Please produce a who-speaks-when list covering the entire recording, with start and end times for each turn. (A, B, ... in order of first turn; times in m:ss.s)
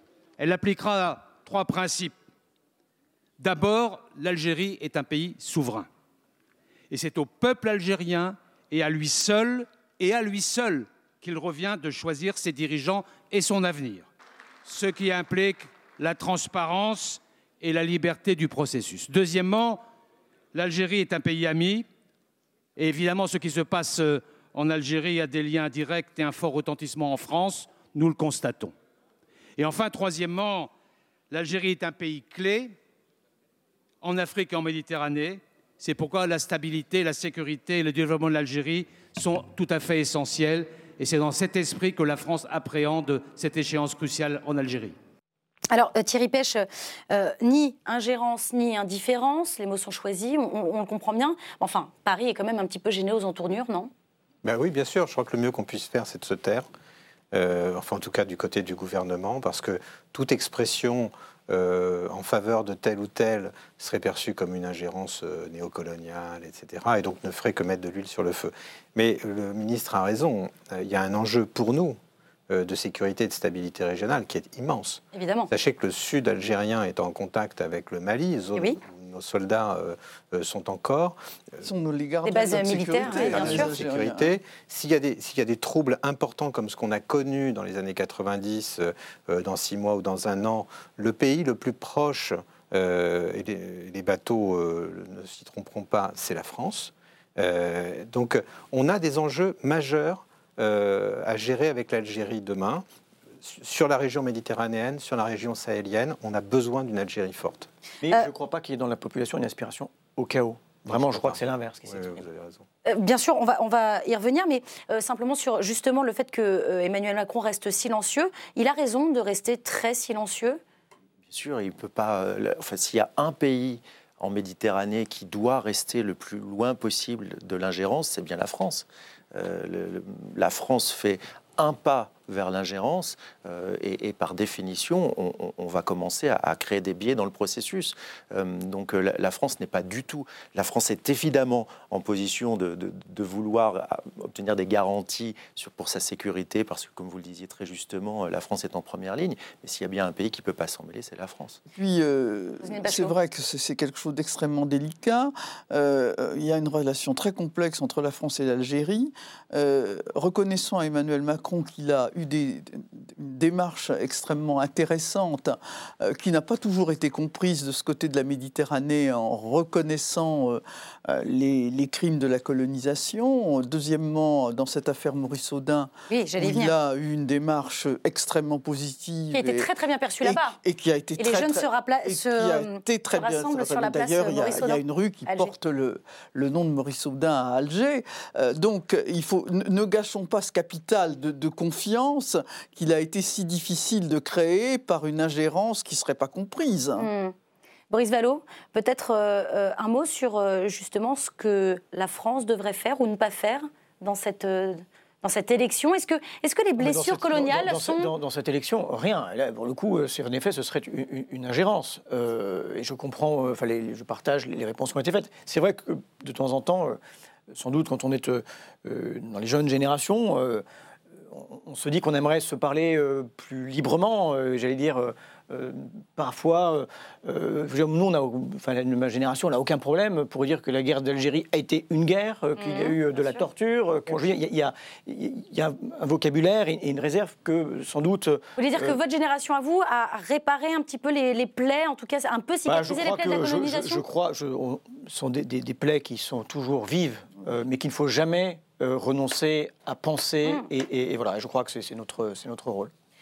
0:00.4-0:02.2 A
0:03.4-0:05.9 A
0:06.9-0:14.1 A
0:14.6-0:19.8 A
0:20.5-0:21.9 A
0:22.8-0:28.7 A
0:29.6-0:30.7 A
0:31.3-0:32.8 A
0:34.0-0:45.0 A
0:45.7-0:53.9 B
0:54.4-0:56.7 C
0:57.3-1:12.0 C
1:12.5-1:21.6 C
1:15.1-1:15.5 B
1:21.6-1:24.3 D
1:22.2-1:23.7 B
1:23.0-1:42.8 C
1:43.4-1:47.7 C
1:48.0-1:52.2 E
1:50.9-1:52.6 C
1:52.9-2:00.6 B
2:01.3-2:31.6 F
2:31.7-2:59.7 D
2:32.6-2:33.2 B
2:56.1-2:56.7 B
2:59.3-3:00.6 B
3:00.2-3:17.1 D
3:01.2-3:05.5 B
3:17.0-3:17.3 B
3:17.9-3:28.1 B
3:26.8-3:37.0 E
3:37.5-3:40.6 E
3:41.3-3:59.0 E
3:52.6-3:53.5 B
3:58.6-4:04.0 B
4:02.7-4:12.9 E